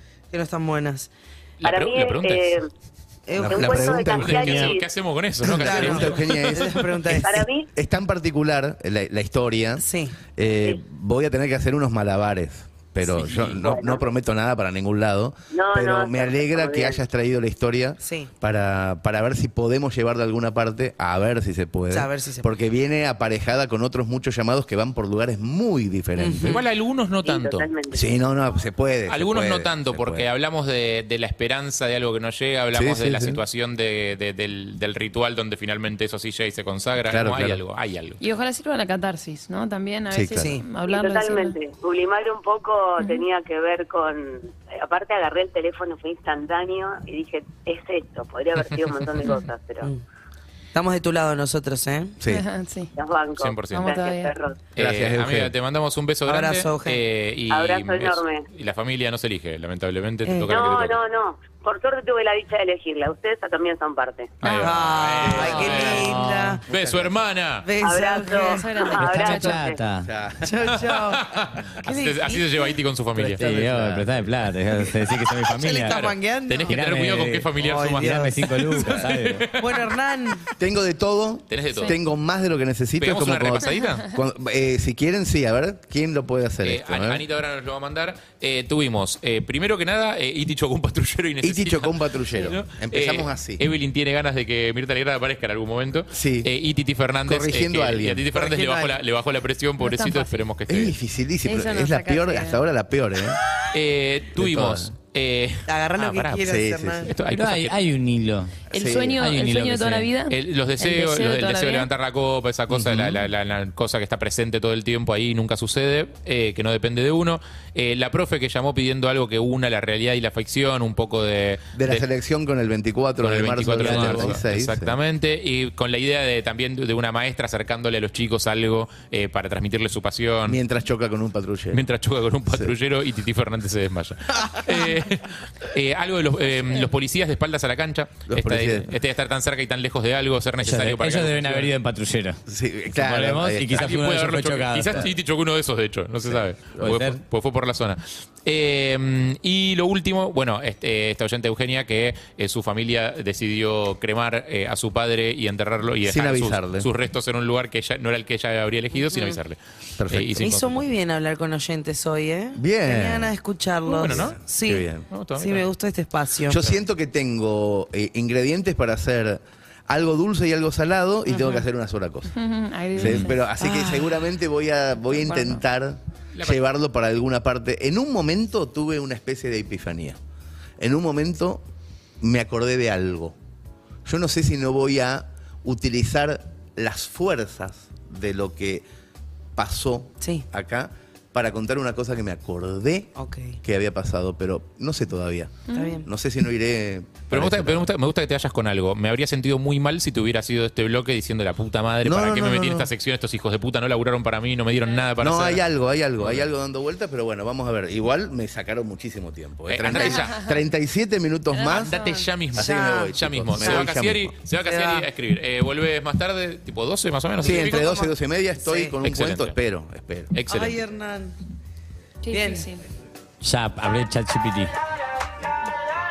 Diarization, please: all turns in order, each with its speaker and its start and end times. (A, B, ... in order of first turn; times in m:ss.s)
0:00.3-0:01.1 A
0:01.6-0:02.6 B
0:01.6-0:02.7 C
0:03.3-0:04.1 A
0:03.4-0:04.8 D
0:03.4-0:04.9 C
0:03.6-0:06.6 B
0:05.4-0:26.6 D
0:05.5-0:07.4 A
0:07.2-0:07.7 C
0:09.8-0:10.2 A
0:13.1-0:13.6 B
0:13.6-0:14.0 C
0:15.5-0:17.1 C
0:18.0-0:18.3 A
0:21.9-0:22.5 A
0:26.2-0:26.6 A
0:26.4-0:27.7 B
0:27.2-0:28.2 C
0:27.9-0:30.3 D
0:29.1-0:38.2 B
0:32.7-0:33.4 D
0:37.1-0:37.6 D
0:38.2-0:41.6 E
0:40.1-0:40.5 D
0:40.4-0:40.6 A
0:40.8-0:49.9 C
0:50.7-0:52.2 A
0:52.2-0:52.4 D
0:52.3-0:52.9 E
0:52.9-0:54.6 C
0:53.4-0:53.9 B
0:53.7-0:54.3 E
0:54.8-1:01.0 B
0:54.8-0:55.5 D
0:56.3-0:57.0 A
0:57.5-0:58.5 C
1:00.2-1:00.6 A
1:00.5-1:04.4 C
1:04.4-1:06.1 B
1:04.4-1:04.7 E
1:04.6-1:06.6 A
1:06.0-1:06.5 F
1:06.7-1:07.2 D
1:06.7-1:07.6 B
1:07.6-1:08.9 A
1:07.8-1:09.8 C
1:08.2-1:09.6 E
1:09.0-1:10.1 F
1:10.0-1:10.7 D
1:10.4-1:11.2 A
1:10.9-1:13.4 B
1:11.8-1:12.5 A
1:13.2-1:14.3 D
1:13.3-1:16.0 F
1:15.5-1:16.8 A
1:15.8-1:19.8 B
1:16.6-1:19.4 F
1:17.6-1:18.8 A
1:19.6-1:20.5 A
1:20.6-1:27.2 D
1:21.5-1:22.0 B
1:23.0-1:24.1 B
1:26.6-1:41.0 B
1:31.4-1:33.6 D
1:36.1-1:36.5 D
1:37.2-1:38.4 D
1:38.3-1:39.0 A
1:39.8-1:40.4 E
1:40.7-1:43.4 D
1:41.4-1:42.6 E
1:43.7-1:46.4 B
1:44.3-1:44.9 D
1:45.7-1:47.1 A
1:46.4-1:47.1 D
1:47.0-1:47.8 B
1:47.3-1:48.6 F
1:48.7-1:49.2 D
1:48.7-1:51.9 E
1:49.2-1:50.1 F
1:49.4-2:02.0 B
1:52.7-1:53.2 D
2:01.7-2:05.0 D
2:03.2-2:10.6 B
2:03.7-2:04.4 F
2:10.4-2:11.8 D
2:11.7-2:21.7 B
2:18.3-2:18.9 D
2:20.6-2:22.4 F
2:22.5-2:24.0 D
2:23.0-2:25.1 F
2:23.7-2:40.8 B
2:26.3-2:27.1 D
2:36.0-2:36.9 D
2:40.0-2:40.5 D
2:40.4-2:46.6 A
2:42.6-2:43.4 D
2:43.9-2:44.4 B
2:44.1-2:45.1 D
2:45.1-2:45.7 B
2:46.5-2:52.3 D
2:52.3-2:53.9 E
2:53.0-3:00.2 D
2:53.0-2:53.2 B
2:55.2-2:55.6 E
2:56.3-2:56.6 B
3:00.8-3:01.6 D
3:02.2-3:03.3 D
3:04.0-3:08.8 D
3:09.6-3:17.9 D
3:13.2-3:13.6 A
3:15.7-3:16.0 E
3:15.7-3:16.1 A
3:17.3-3:25.7 B
3:22.0-3:22.9 D
3:25.2-3:32.0 D
3:26.2-3:26.5 B
3:29.7-3:30.5 B
3:31.5-3:32.3 E
3:31.7-3:38.0 B
3:32.5-3:34.3 D
3:32.6-3:33.9 A
3:34.6-3:35.1 A
3:37.4-3:40.3 D
3:38.6-3:39.0 A
3:39.0-3:39.6 B
3:40.3-3:40.8 B
3:40.5-3:41.3 A
3:42.2-3:42.8 E
3:42.3-3:42.7 A
3:43.4-3:44.7 F